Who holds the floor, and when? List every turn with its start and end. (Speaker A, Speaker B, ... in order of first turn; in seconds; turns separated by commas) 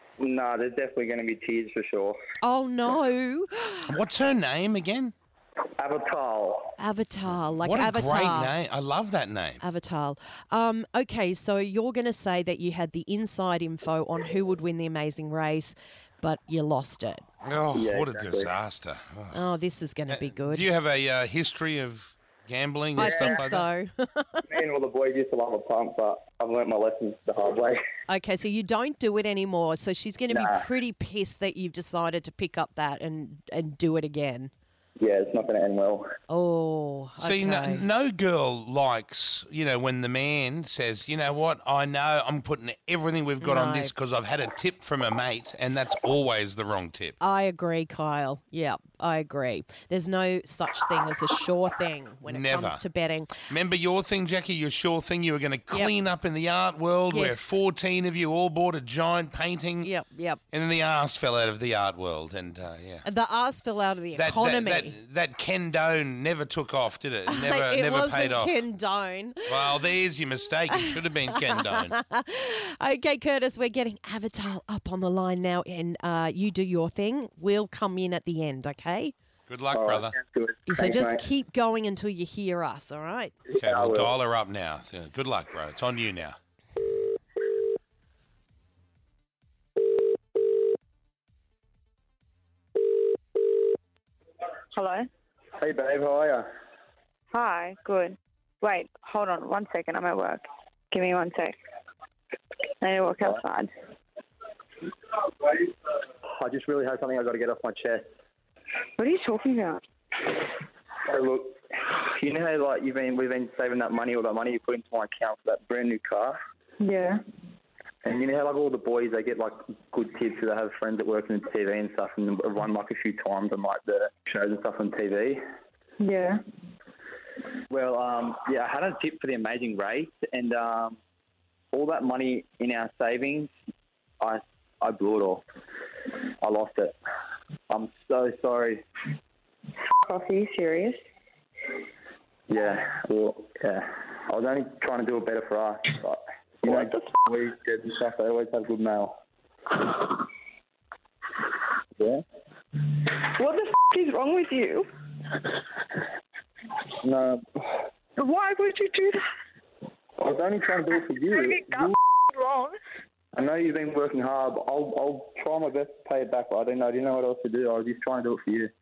Speaker A: 0.2-2.2, Speaker B: 2.4-4.0, Speaker C: 3.9-5.1, Speaker A: 5.8-6.7, Speaker B: 6.8-8.5, Speaker C: 7.6-9.6, Speaker B: 9.6-17.2, Speaker C: 17.4-19.4, Speaker A: 17.7-18.5, Speaker B: 19.3-20.7, Speaker C: 20.1-23.6, Speaker B: 22.9-24.4, Speaker A: 23.0-23.5, Speaker A: 24.4-27.8, Speaker B: 28.1-34.5, Speaker A: 30.3-30.6, Speaker A: 35.0-36.1, Speaker B: 36.3-37.8, Speaker C: 37.2-47.1, Speaker B: 43.4-43.9, Speaker B: 47.2-53.3, Speaker C: 52.2-52.8, Speaker C: 53.5-59.9, Speaker B: 57.1-57.6, Speaker B: 59.8-60.4, Speaker C: 60.5-63.0, Speaker B: 63.0-65.0, Speaker C: 64.2-68.6, Speaker B: 67.3-69.8, Speaker C: 69.5-72.0, Speaker B: 70.7-79.1, Speaker C: 79.5-80.2, Speaker A: 79.7-81.2, Speaker B: 80.7-83.3, Speaker A: 83.5-84.1, Speaker C: 83.5-86.4, Speaker D: 94.7-95.1, Speaker A: 95.6-96.5, Speaker D: 97.3-101.5, Speaker D: 102.8-103.7, Speaker A: 106.4-108.1, Speaker D: 109.0-109.8, Speaker A: 111.1-116.4, Speaker D: 116.8-117.2, Speaker A: 118.0-125.4, Speaker D: 126.0-126.3, Speaker A: 127.7-131.0, Speaker A: 131.7-133.5, Speaker A: 134.2-135.4, Speaker A: 136.4-137.0, Speaker A: 137.7-138.8, Speaker D: 140.0-141.0, Speaker A: 142.5-149.2, Speaker D: 146.7-147.0, Speaker D: 149.9-150.2, Speaker A: 152.0-152.2, Speaker D: 152.8-155.6, Speaker A: 157.0-157.8, Speaker D: 158.2-159.2, Speaker A: 160.2-161.9, Speaker D: 161.1-162.8, Speaker A: 163.3-168.7